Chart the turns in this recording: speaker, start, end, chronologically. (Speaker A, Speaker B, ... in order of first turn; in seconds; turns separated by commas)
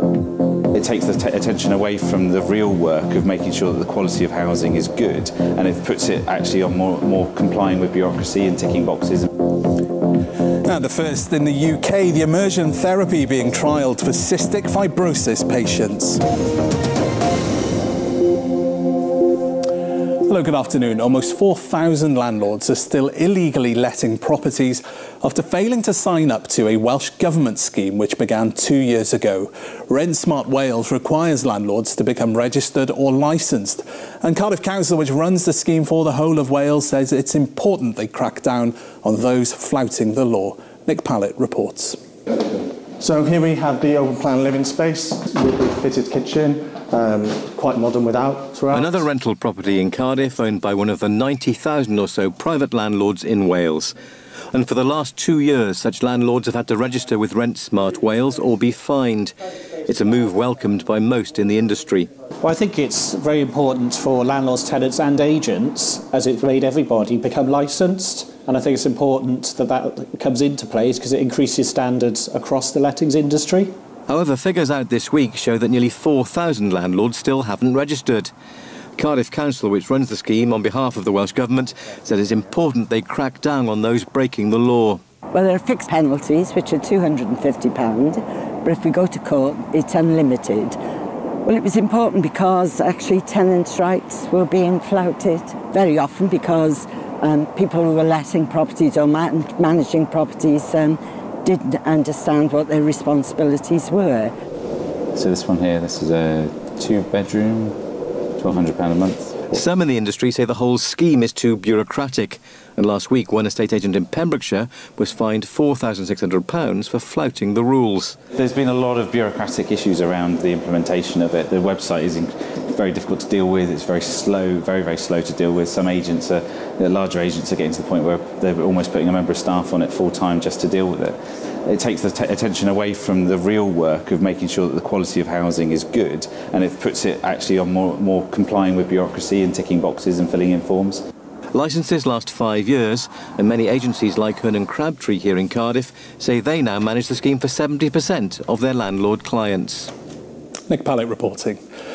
Speaker A: 0.7-9.3, Speaker B: 10.6-16.2, Speaker B: 20.2-42.0, Speaker C: 43.0-49.0, Speaker D: 48.7-53.9, Speaker D: 54.5-62.1, Speaker E: 62.4-73.7, Speaker D: 74.1-78.3, Speaker D: 79.0-85.0, Speaker F: 85.3-90.8, Speaker F: 91.4-104.3, Speaker A: 105.1-107.8, Speaker A: 108.4-109.5, Speaker D: 109.5-118.2, Speaker A: 118.3-141.0, Speaker D: 141.5-149.9, Speaker B: 150.7-151.6